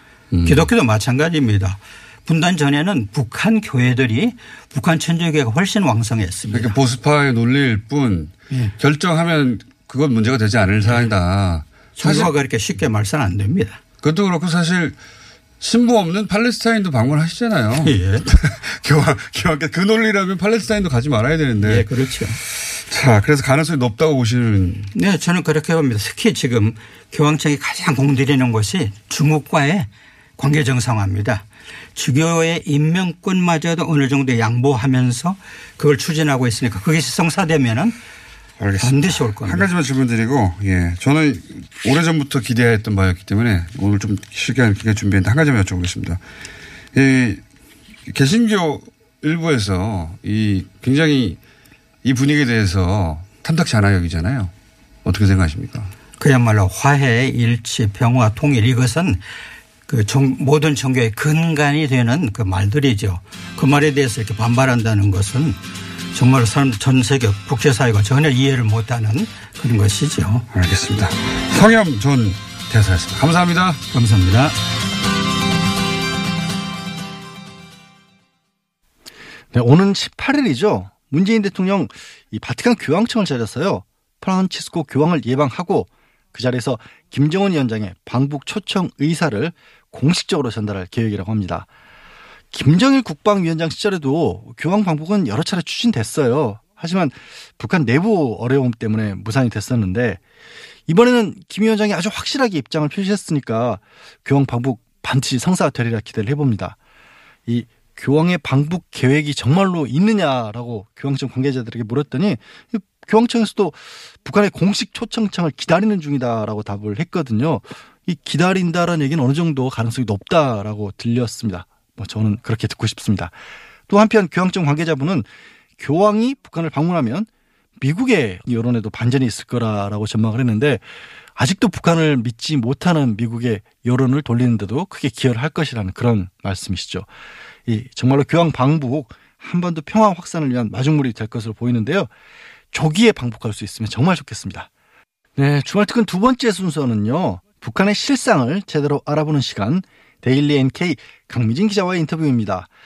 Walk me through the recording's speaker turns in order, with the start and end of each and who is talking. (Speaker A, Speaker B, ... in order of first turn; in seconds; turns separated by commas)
Speaker A: 0.3-0.6, Speaker B: 0.4-6.7, Speaker A: 6.5-12.3, Speaker B: 12.0-13.8, Speaker A: 14.0-14.9, Speaker A: 15.6-21.9, Speaker B: 17.8-18.2, Speaker B: 21.6-22.4, Speaker A: 22.5-24.9, Speaker B: 24.9-31.4, Speaker B: 31.9-38.0, Speaker A: 38.6-46.2, Speaker B: 38.7-39.7, Speaker A: 46.9-47.4, Speaker A: 48.1-51.4, Speaker A: 52.0-54.5, Speaker A: 55.0-55.9, Speaker B: 56.2-59.2, Speaker B: 59.9-65.6, Speaker B: 66.1-70.5, Speaker A: 70.5-73.8, Speaker B: 73.9-74.5, Speaker C: 79.5-91.7, Speaker C: 92.5-100.2, Speaker C: 100.9-106.8, Speaker C: 107.5-123.3, Speaker C: 123.9-125.3, Speaker C: 125.8-127.3, Speaker C: 127.8-130.8, Speaker C: 131.3-137.1, Speaker C: 137.7-142.1, Speaker C: 142.7-144.7, Speaker C: 145.3-152.7